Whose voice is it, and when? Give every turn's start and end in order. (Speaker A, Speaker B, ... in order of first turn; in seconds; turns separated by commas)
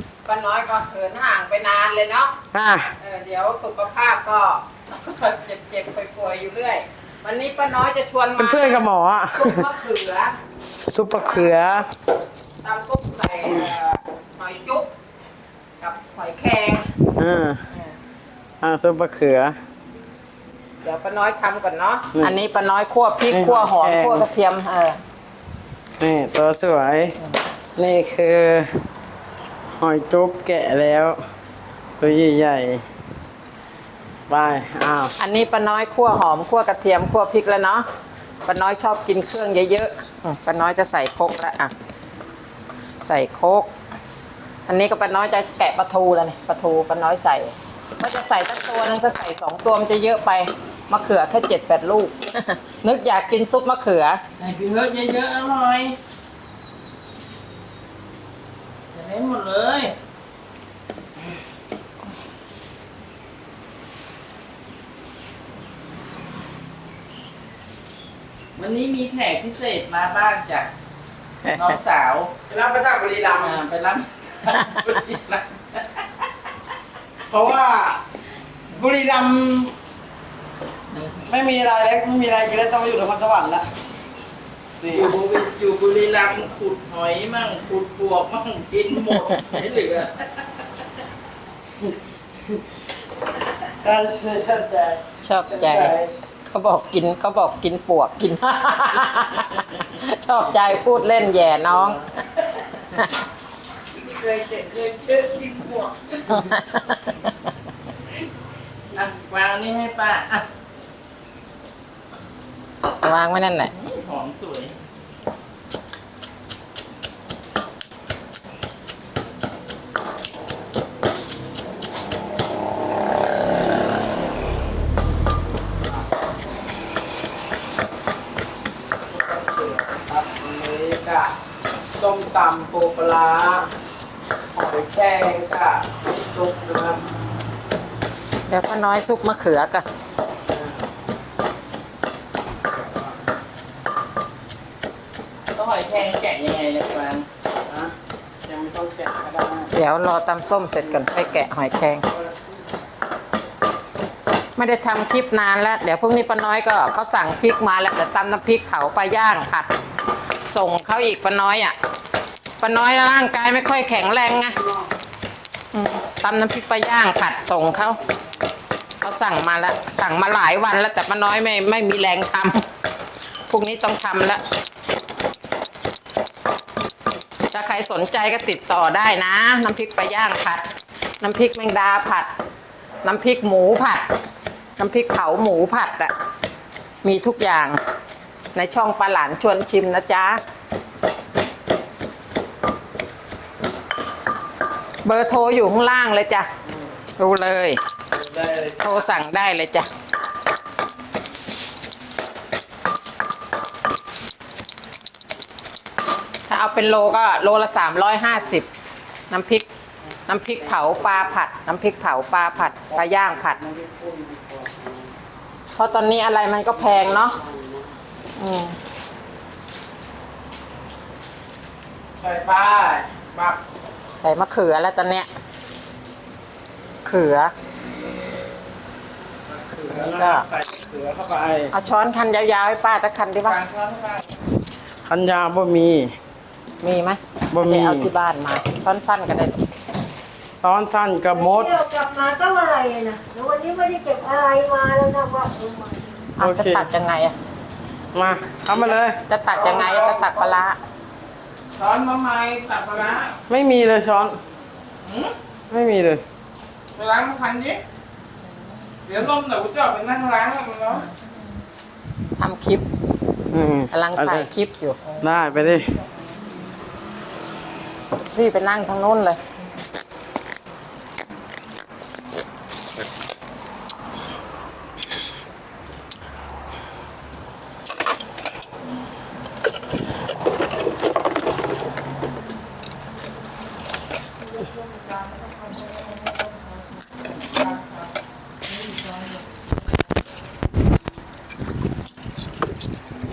Speaker A: 0.2-2.3, Speaker B: 2.5-2.9, Speaker A: 3.0-10.3, Speaker B: 8.4-9.7, Speaker B: 10.8-11.9, Speaker A: 11.2-11.9, Speaker A: 12.6-14.9, Speaker A: 15.8-16.9, Speaker B: 17.2-17.6, Speaker B: 18.6-19.6, Speaker A: 20.8-25.0, Speaker B: 23.3-24.2, Speaker B: 26.0-27.2, Speaker B: 27.8-28.8, Speaker B: 29.8-31.2, Speaker B: 32.0-32.9, Speaker B: 34.3-35.1, Speaker A: 35.2-37.9, Speaker A: 38.5-41.7, Speaker A: 43.0-43.7, Speaker A: 44.7-54.2, Speaker C: 54.4-56.0, Speaker C: 58.9-59.9, Speaker C: 68.5-70.7, Speaker A: 71.4-71.7, Speaker C: 71.5-72.3, Speaker B: 72.5-73.6, Speaker C: 73.4-76.0, Speaker B: 77.2-78.0, Speaker B: 78.7-79.7, Speaker B: 81.2-83.7, Speaker B: 84.8-85.1, Speaker C: 84.9-90.4, Speaker B: 93.7-96.1, Speaker A: 95.2-95.9, Speaker A: 96.5-102.0, Speaker C: 103.9-106.5, Speaker A: 106.3-107.3, Speaker C: 108.9-110.4, Speaker A: 113.0-113.7, Speaker C: 113.7-114.7, Speaker B: 129.1-131.3, Speaker B: 131.9-133.7, Speaker B: 134.5-137.0, Speaker A: 138.5-139.8, Speaker B: 140.5-140.8, Speaker B: 142.7-143.1, Speaker C: 145.5-147.3, Speaker B: 147.6-147.9, Speaker B: 148.4-149.7, Speaker A: 149.7-152.0, Speaker A: 154.6-159.7, Speaker A: 160.4-161.7, Speaker A: 162.6-164.6, Speaker A: 165.7-168.0, Speaker A: 169.0-172.6, Speaker A: 173.5-174.4, Speaker A: 177.5-180.7, Speaker A: 181.2-182.3, Speaker A: 183.0-184.1, Speaker A: 184.8-186.1, Speaker A: 187.0-187.8, Speaker A: 188.5-190.4, Speaker A: 195.0-196.5, Speaker A: 197.2-197.8, Speaker B: 198.1-198.8, Speaker A: 198.8-199.9, Speaker A: 206.5-208.7, Speaker A: 209.3-209.7, Speaker A: 210.3-213.6, Speaker B: 213.7-215.0, Speaker A: 215.7-217.4, Speaker A: 218.3-218.8, Speaker B: 222.2-223.6, Speaker A: 224.2-225.3, Speaker A: 227.0-227.5, Speaker B: 229.5-231.7, Speaker A: 229.9-230.4, Speaker A: 231.7-233.6, Speaker C: 233.4-234.4, Speaker B: 235.1-236.2, Speaker A: 236.8-239.6, Speaker B: 237.5-238.1, Speaker B: 240.6-241.8, Speaker D: 241.3-246.2, Speaker A: 246.4-247.3, Speaker B: 246.4-246.9, Speaker B: 248.1-249.2, Speaker A: 248.7-250.8, Speaker C: 249.5-250.6, Speaker C: 251.8-253.4, Speaker B: 253.5-254.4, Speaker C: 255.0-255.3, Speaker B: 255.7-256.2, Speaker C: 256.9-257.8, Speaker C: 259.0-261.1, Speaker A: 262.4-262.8, Speaker B: 263.5-264.5, Speaker A: 263.9-265.0, Speaker B: 265.2-266.0, Speaker A: 268.3-269.4, Speaker C: 284.9-286.8, Speaker C: 287.5-287.9